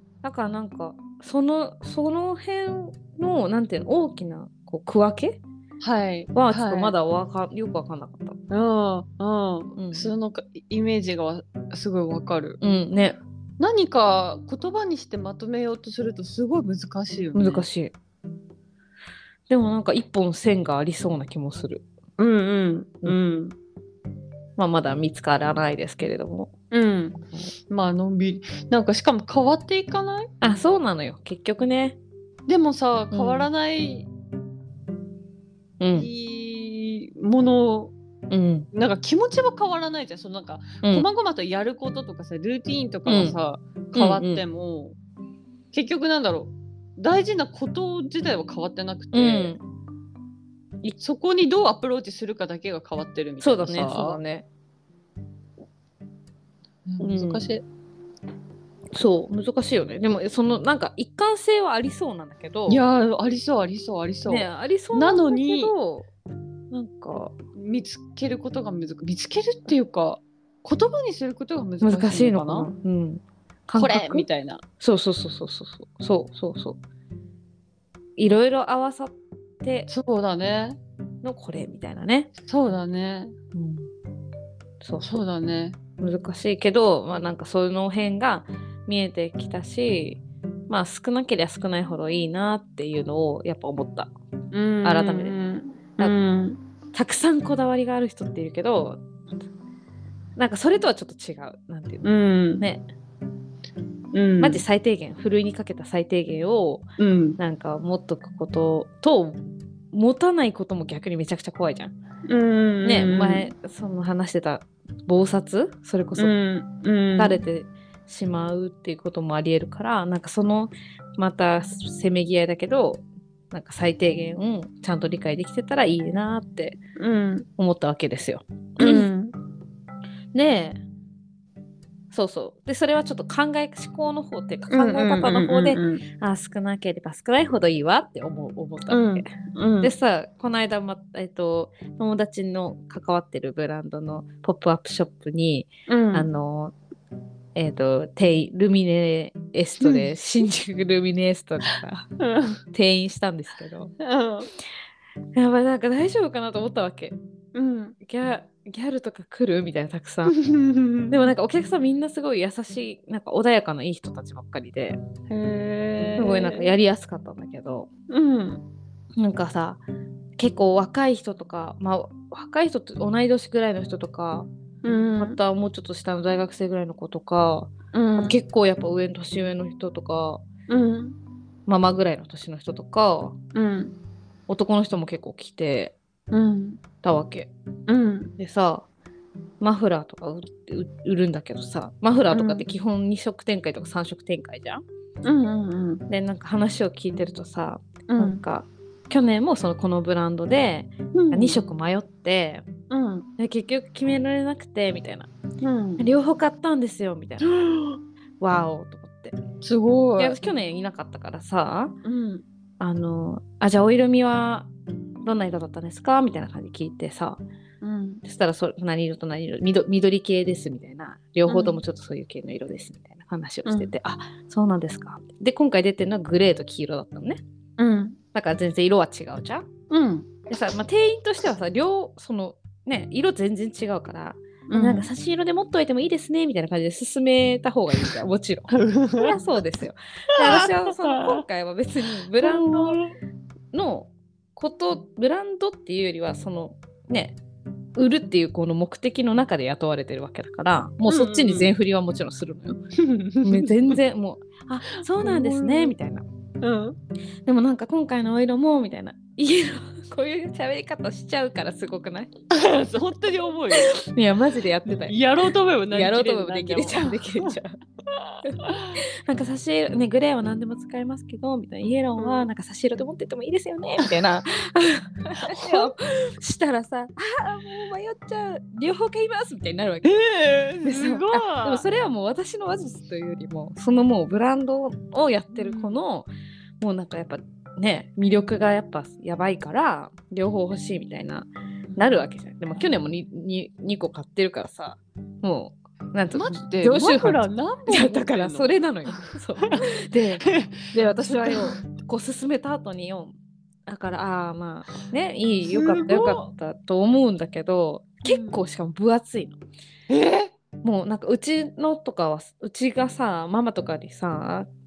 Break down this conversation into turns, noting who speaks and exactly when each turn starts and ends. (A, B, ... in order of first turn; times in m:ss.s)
0:00.2-0:05.4 A
0:05.8-0:06.9 B
0:06.3-0:08.4 A
0:08.5-0:12.6 B
0:09.8-0:10.1 A
0:12.6-0:13.2 A
0:13.6-0:17.6 B
0:17.3-0:17.9 A
0:19.5-0:21.8 A
0:22.2-0:23.5 B
0:24.6-0:26.5 A
0:26.7-0:30.3 B
0:30.4-0:32.0 A
0:32.5-0:34.1 B
0:33.1-0:33.5 A
0:35.8-0:36.1 A
0:35.9-0:37.9 B
0:38.3-0:38.7 A
0:38.7-0:45.0 B
0:43.0-0:43.4 A
0:43.9-0:44.4 A
0:45.7-0:49.5 B
0:49.1-0:49.6 A
0:51.0-0:54.2 B
0:53.4-0:54.4 A
0:56.9-0:57.6 B
0:57.0-0:57.5 A
0:58.9-1:02.8 A
1:02.7-1:05.7 B
1:04.3-1:06.1 A
1:06.7-1:07.3 A
1:07.6-1:12.7 B
1:11.8-1:14.3 A
1:13.8-1:14.6 B
1:14.8-1:16.8 A
1:18.2-1:19.9 A
1:19.9-1:20.8 B
1:21.2-1:22.3 A
1:22.4-1:23.4 B
1:23.5-1:23.9 A
1:24.8-1:25.2 A
1:25.0-1:25.8 B
1:26.0-1:34.1 A
1:34.5-1:36.6 B
1:34.8-1:35.4 A
1:36.9-1:39.0 A
1:40.4-1:42.8 A
1:42.0-1:42.6 B
1:44.1-1:44.6 B
1:44.4-1:46.8 A
1:47.0-1:47.4 B
1:47.4-1:49.4 A
1:49.9-1:51.9 A
1:52.3-1:53.5 B
1:52.8-1:56.3 A
1:56.2-1:57.4 B
1:57.2-2:06.8 A
2:07.0-2:07.5 B
2:07.6-2:09.1 A
2:08.8-2:09.3 B
2:10.3-2:10.8 A
2:12.1-2:19.3 A
2:14.7-2:16.0 B
2:18.9-2:19.9 B
2:19.8-2:26.7 A
2:25.9-2:26.3 B
2:27.5-2:32.1 A
2:29.8-2:30.1 B
2:32.2-2:32.6 B
2:32.7-2:33.9 A
2:34.0-2:34.5 B
2:35.3-2:37.2 A
2:37.5-2:38.0 B
2:38.0-2:40.4 A
2:40.2-2:41.2 B
2:41.1-2:45.0 A
2:45.3-2:46.7 B
2:46.1-2:47.9 A
2:48.1-2:48.6 B
2:49.2-2:49.8 A
2:50.4-2:54.5 A
2:54.8-2:55.4 B
2:55.2-3:00.4 A
2:57.9-2:58.4 B
3:00.7-3:01.2 B
3:01.7-3:03.4 A
3:03.5-3:03.9 B
3:04.5-3:05.9 A
3:06.3-3:06.8 B
3:07.0-3:07.5 A
3:07.9-3:08.3 B
3:08.4-3:08.9 A
3:09.6-3:14.8 A
3:12.3-3:12.6 B
3:15.2-3:16.0 B
3:16.1-3:22.6 A
3:18.1-3:18.4 B
3:21.1-3:21.6 B
3:22.9-3:23.3 B
3:23.4-3:25.3 A
3:25.6-3:26.0 B
3:26.0-3:27.5 A
3:27.4-3:28.0 B
3:28.4-3:29.4 A
3:29.6-3:30.4 B
3:30.2-3:32.0 A
3:32.0-3:32.4 B
3:32.8-3:34.7 A
3:35.2-3:37.4 A
3:37.8-3:38.2 B
3:38.2-3:47.4 A
3:41.4-3:41.8 B
3:43.6-3:43.9 B
3:47.8-3:48.2 B
3:48.3-3:49.6 A
3:49.9-3:50.3 B
3:50.5-4:03.0 A
3:54.7-3:55.1 B
3:58.7-3:59.4 B
4:00.4-4:01.4 B
4:02.4-4:03.1 B
4:03.7-4:07.4 A
4:08.0-4:12.8 A
4:11.1-4:11.7 B
4:13.0-4:14.0 B
4:13.4-4:16.2 A
4:15.0-4:15.9 B
4:16.6-4:17.0 B
4:17.4-4:22.3 A
4:22.5-4:24.0 B
4:23.7-4:25.2 A
4:24.8-4:27.5 B
4:25.9-4:27.7 A
4:28.1-4:29.0 B
4:28.4-4:40.1 A
4:32.2-4:32.5 B
4:35.4-4:35.9 B
4:40.0-4:41.8 B
4:40.8-4:46.3 A
4:45.5-4:46.0 B
4:46.8-5:03.3 A
4:51.9-4:52.2 B
4:56.3-5:01.8 B
5:03.8-5:09.6 A
5:05.6-5:06.5 B
5:08.2-5:08.6 B
5:10.1-5:10.5 B
5:10.8-5:14.7 A